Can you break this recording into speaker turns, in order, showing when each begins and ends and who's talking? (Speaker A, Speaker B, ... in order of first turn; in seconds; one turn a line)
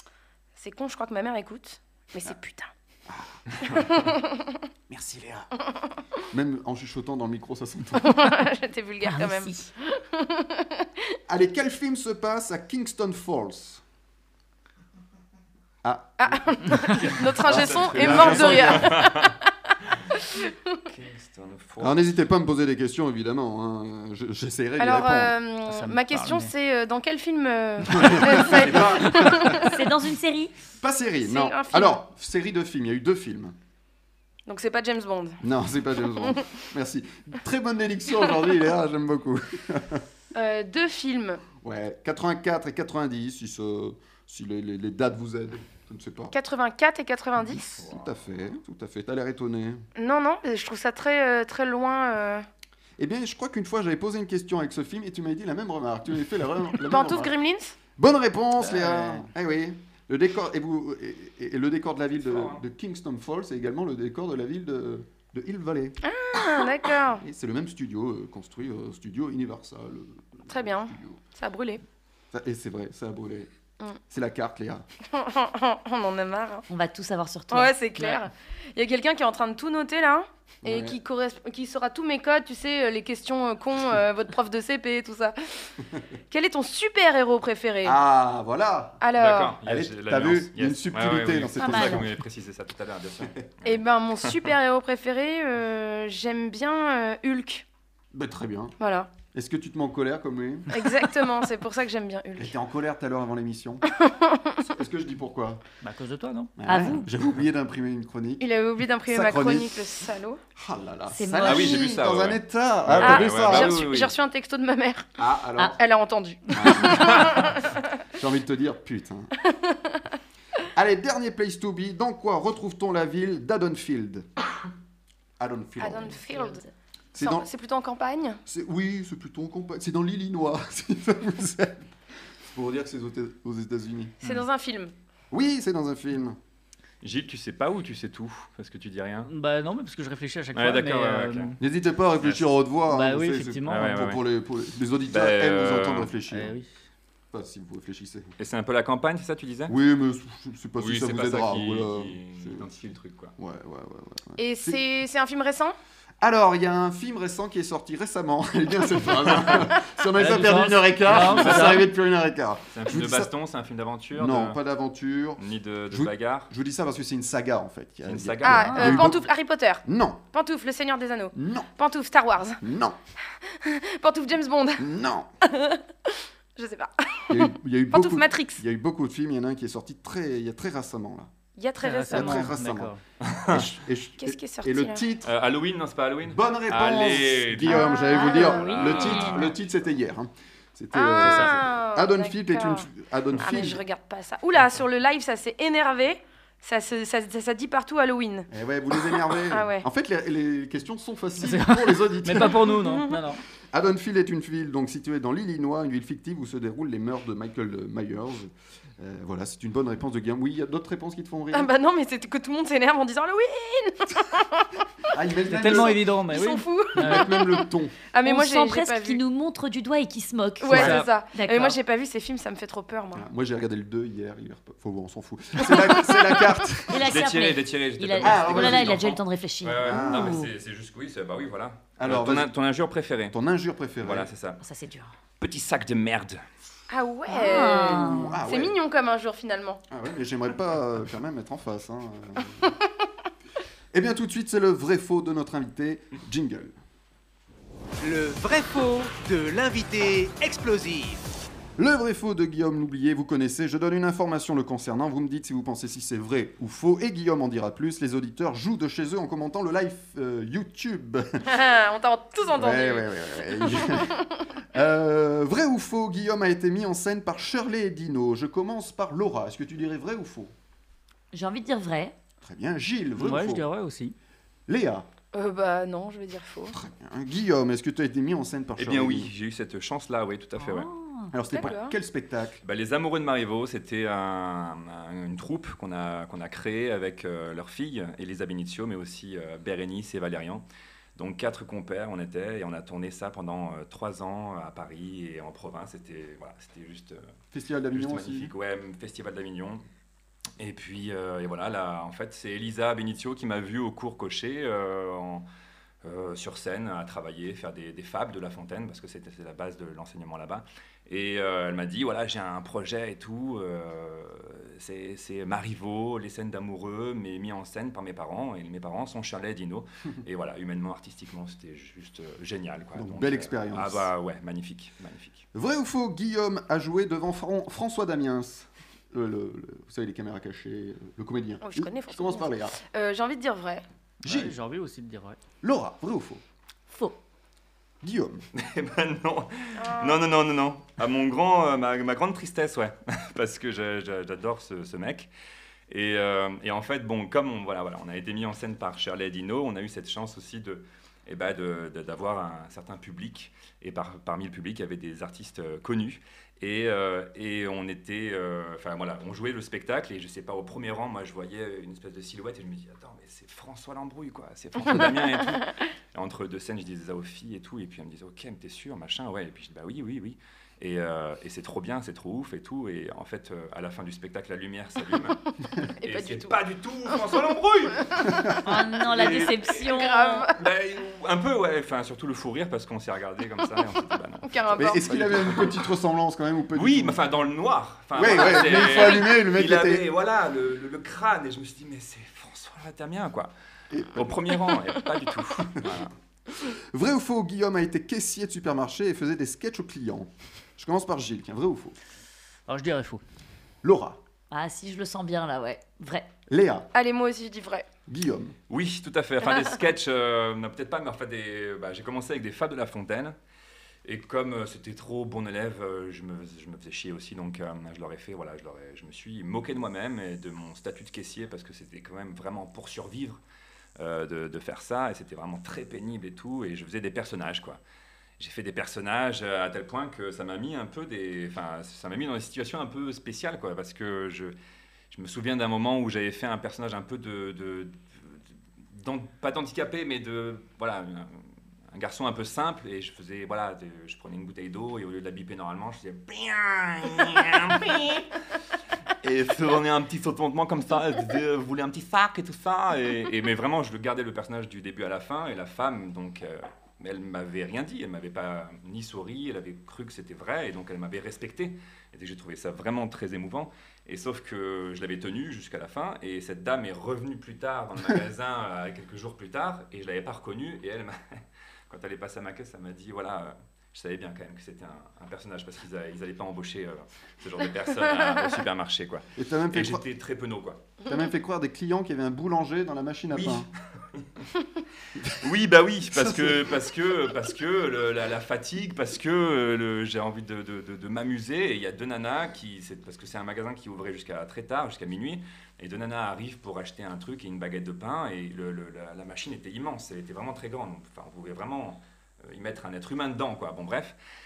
Speaker A: 0.6-2.7
Speaker B: 3.1-3.8
Speaker A: 3.7-4.5
Speaker B: 4.9-5.5
Speaker B: 6.3-8.3
Speaker A: 8.0-11.2
Speaker C: 9.1-9.6
Speaker B: 11.3-13.8
Speaker B: 15.8-16.8
Speaker A: 16.2-19.3
Speaker D: 16.9-19.3
Speaker B: 17.4-19.0
Speaker D: 20.9-22.1
Speaker B: 21.8-25.4
Speaker A: 24.8-29.8
Speaker E: 25.7-26.5
Speaker B: 27.9-29.6
Speaker D: 28.4-29.0
Speaker C: 29.6-30.5
Speaker B: 30.8-33.5
Speaker A: 31.2-32.0
Speaker A: 34.5-35.4
Speaker B: 35.4-40.0
Speaker A: 36.2-36.5
Speaker A: 40.3-41.4
Speaker B: 41.6-46.3
Speaker A: 46.3-47.8
Speaker D: 47.8-48.1
Speaker B: 47.8-49.9
Speaker A: 50.0-52.5
Speaker B: 53.0-57.4
Speaker A: 56.9-57.8
Speaker B: 58.0-66.0
Speaker E: 58.6-59.3
Speaker D: 62.2-62.6
Speaker A: 66.0-67.2
Speaker B: 67.2-71.2
Speaker A: 70.5-71.8
Speaker B: 72.3-73.5
Speaker B: 74.1-74.8
Speaker A: 75.1-76.7
Speaker C: 76.7-78.2
Speaker A: 77.5-85.4
Speaker B: 80.6-81.0
Speaker A: 86.3-88.0
Speaker B: 87.8-89.0
Speaker A: 89.0-89.6
Speaker D: 89.2-94.5
Speaker B: 89.6-92.2
Speaker C: 91.6-92.0
Speaker A: 93.7-97.7
Speaker B: 98.1-98.8
Speaker A: 98.8-99.1
Speaker B: 99.3-100.9
Speaker A: 100.7-102.5
Speaker B: 102.4-103.8
Speaker A: 103.9-104.5
Speaker B: 104.6-105.6
Speaker E: 105.8-106.5
Speaker B: 106.6-108.5
Speaker C: 106.7-107.1
Speaker A: 108.4-110.4
Speaker B: 109.1-109.9
Speaker B: 110.6-113.8
Speaker C: 111.1-112.0
Speaker D: 111.4-114.1
Speaker A: 113.0-115.1
Speaker B: 115.2-115.8
Speaker A: 115.8-117.7
Speaker B: 116.5-117.3
Speaker B: 118.2-119.3
Speaker A: 119.7-120.0
Speaker B: 120.8-124.3
Speaker B: 125.4-126.2
Speaker A: 125.8-126.6
Speaker C: 126.3-126.7
Speaker B: 127.1-127.5
Speaker A: 127.2-128.4
Speaker B: 128.5-131.9
Speaker B: 132.4-134.1
Speaker A: 134.2-134.9
Speaker B: 135.3-136.4
Speaker D: 137.0-139.3
Speaker E: 139.3-141.5
Speaker D: 140.6-141.6
Speaker B: 141.6-146.6
Speaker D: 142.2-142.5
Speaker E: 142.9-143.9
Speaker D: 143.7-144.2
Speaker D: 145.1-146.1
Speaker E: 146.3-146.7
Speaker B: 147.3-148.3
Speaker D: 148.4-149.7
Speaker B: 149.7-152.7
Speaker D: 150.8-153.3
Speaker B: 153.4-154.8
Speaker A: 154.4-155.8
Speaker B: 156.2-163.3
Speaker E: 160.2-161.9
Speaker D: 161.1-161.8
Speaker D: 162.7-164.6
Speaker B: 164.1-169.2
Speaker D: 165.4-166.5
Speaker D: 168.1-169.1
Speaker A: 168.4-172.6
Speaker C: 168.6-169.1
Speaker B: 169.8-170.2
Speaker B: 171.3-171.7
Speaker B: 172.6-173.0
Speaker A: 173.5-174.9
Speaker B: 174.8-175.3
Speaker A: 175.4-178.6
Speaker B: 177.3-181.3
Speaker A: 181.6-182.5
Speaker E: 181.8-183.0
Speaker B: 182.1-182.9
Speaker D: 183.2-183.7
Speaker B: 183.5-185.3
Speaker A: 184.2-185.0
Speaker D: 185.2-189.6
Speaker B: 186.3-193.8
Speaker A: 187.7-189.0
Speaker C: 188.2-189.4
Speaker A: 190.9-192.9
Speaker A: 193.4-198.5
Speaker B: 198.5-203.0
Speaker A: 199.0-199.8
Speaker E: 201.4-203.4
Speaker A: 202.8-203.1
Speaker B: 203.7-211.7
Speaker A: 211.5-214.8
Speaker B: 215.1-216.0
Speaker E: 215.5-217.3
Speaker A: 215.6-219.2
Speaker B: 217.0-218.0
Speaker C: 218.2-221.8
Speaker A: 220.6-223.3
Speaker E: 220.7-221.1
Speaker B: 223.2-227.2
Speaker A: 225.6-226.3
Speaker C: 226.9-230.5
Speaker D: 226.9-233.4
Speaker B: 228.2-229.2
Speaker B: 229.8-230.4
Speaker B: 232.0-232.5
Speaker B: 233.3-234.3
Speaker D: 234.0-234.6
Speaker C: 234.6-235.1
Speaker D: 235.4-236.4
Speaker A: 236.9-239.8
Speaker C: 237.3-238.4
Speaker B: 237.9-238.8
Speaker B: 239.9-242.7
Speaker B: 243.9-246.8
Speaker F: 248.0-251.2
Speaker B: 251.8-261.5
Speaker A: 261.5-264.4
Speaker B: 262.5-264.2
Speaker B: 264.7-270.5
Speaker C: 271.3-272.1
Speaker B: 272.4-273.7
Speaker E: 273.2-274.1
Speaker B: 274.7-275.1
Speaker A: 275.3-276.7
Speaker B: 276.7-279.3
Speaker D: 278.8-280.9
Speaker C: 280.6-281.4
Speaker B: 281.3-282.6
Speaker A: 281.5-281.9
Speaker D: 282.6-290.6
Speaker D: 291.2-297.2
Speaker B: 297.5-298.5
Speaker D: 297.9-299.8
Speaker D: 300.6-305.4
Speaker D: 306.0-325.4
Speaker B: 322.9-324.1
Speaker B: 325.5-332.8
Speaker A: 331.6-333.8
Speaker B: 334.2-334.5
Speaker E: 334.2-335.4
Speaker B: 335.6-336.4
Speaker C: 336.9-337.2
Speaker B: 338.0-338.4
Speaker D: 338.6-345.3
Speaker A: 339.8-340.2
Speaker D: 345.9-375.4
Speaker A: 376.0-376.6
Speaker D: 376.0-379.8
Speaker C: 378.6-380.5
Speaker A: 379.8-380.6
Speaker D: 380.6-385.7
Speaker A: 384.5-385.1
Speaker B: 384.8-387.2
Speaker D: 386.7-393.5
Speaker B: 388.1-390.1
Speaker A: 388.2-389.2
Speaker B: 393.9-394.4
Speaker D: 394.1-396.1
Speaker B: 396.6-402.0
Speaker E: 402.7-403.2
Speaker B: 403.8-404.2
Speaker C: 404.5-406.3
Speaker B: 406.5-406.9
Speaker A: 406.9-407.9
Speaker B: 408.1-408.6
Speaker D: 408.7-413.4
Speaker D: 414.1-423.4
Speaker D: 424.0-427.8
Speaker D: 428.4-434.6
Speaker D: 435.1-438.4
Speaker D: 438.9-441.4
Speaker D: 441.9-448.3
Speaker D: 449.2-480.8
Speaker B: 479.4-480.0
Speaker B: 481.1-483.7
Speaker D: 483.3-484.2
Speaker D: 485.3-504.2
Speaker B: 486.1-486.8